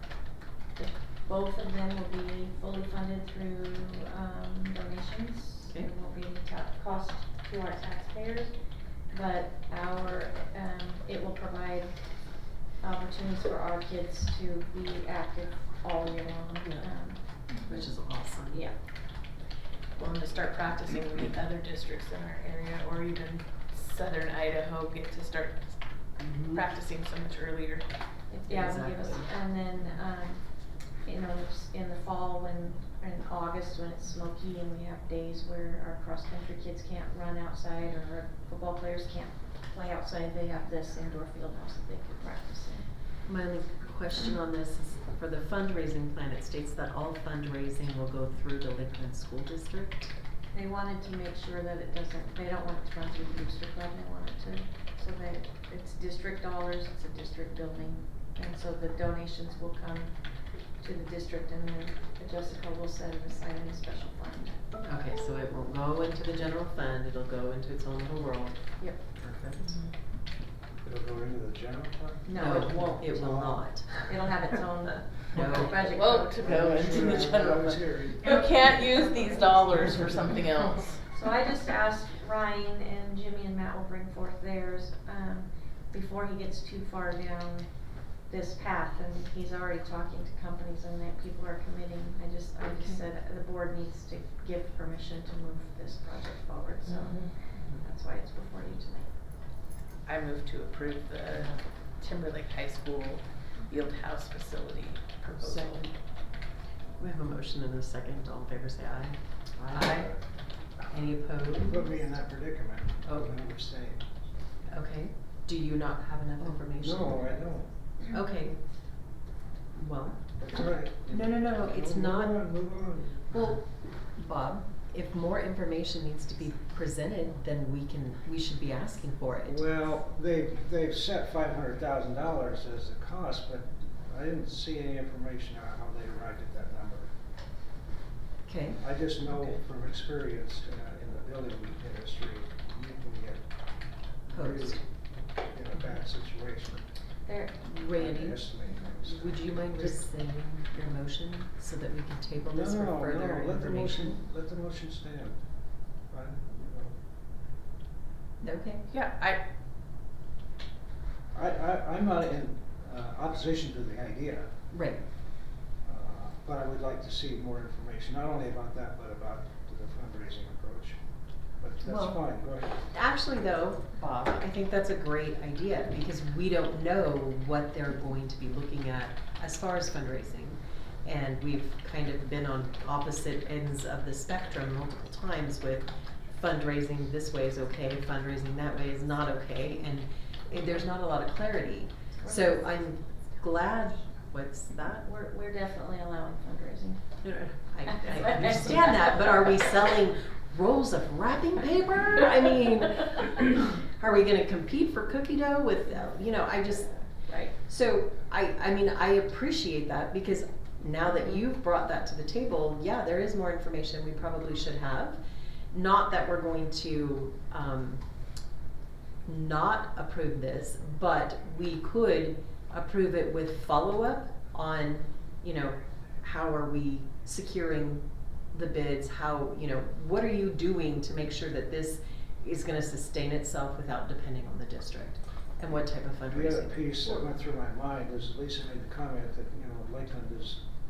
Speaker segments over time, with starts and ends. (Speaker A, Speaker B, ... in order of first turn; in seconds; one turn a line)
Speaker A: 0.8-8.5
Speaker A: 9.1-11.9
Speaker A: 12.8-17.8
Speaker B: 17.6-18.7
Speaker C: 19.9-25.8
Speaker B: 26.3-26.6
Speaker C: 26.4-27.8
Speaker A: 28.3-30.4
Speaker B: 28.5-29.3
Speaker A: 31.0-42.9
Speaker B: 43.2-50.1
Speaker A: 50.5-60.1
Speaker A: 60.8-64.6
Speaker B: 64.8-69.8
Speaker D: 70.8-73.8
Speaker A: 72.2-73.1
Speaker B: 72.3-74.3
Speaker A: 74.0-77.4
Speaker B: 75.3-75.8
Speaker C: 75.4-81.0
Speaker D: 76.4-78.2
Speaker A: 78.2-80.3
Speaker A: 81.1-87.7
Speaker A: 88.3-99.1
Speaker B: 92.6-93.0
Speaker C: 100.0-105.9
Speaker B: 105.4-105.9
Speaker B: 107.0-110.1
Speaker D: 109.6-110.2
Speaker B: 110.9-111.9
Speaker D: 111.6-114.0
Speaker B: 113.0-113.3
Speaker B: 114.7-117.3
Speaker D: 116.8-117.7
Speaker B: 118.1-118.5
Speaker B: 119.7-120.3
Speaker D: 120.4-123.3
Speaker B: 121.1-122.5
Speaker B: 123.3-129.8
Speaker D: 129.5-137.1
Speaker B: 138.4-138.8
Speaker D: 138.8-143.4
Speaker D: 144.3-146.9
Speaker B: 144.3-144.8
Speaker A: 147.2-147.6
Speaker B: 147.6-154.2
Speaker D: 147.8-150.0
Speaker D: 152.5-155.4
Speaker D: 156.1-157.0
Speaker B: 158.4-158.8
Speaker C: 158.9-159.4
Speaker D: 161.3-164.5
Speaker B: 164.7-165.0
Speaker D: 165.8-171.0
Speaker D: 171.6-172.8
Speaker B: 171.8-172.2
Speaker B: 172.9-195.0
Speaker A: 192.2-192.6
Speaker A: 195.0-197.1
Speaker B: 197.2-206.9
Speaker A: 197.9-199.1
Speaker A: 207.2-207.5
Speaker B: 207.5-215.2
Speaker B: 215.7-218.0
Speaker B: 219.2-236.9
Speaker D: 236.3-240.6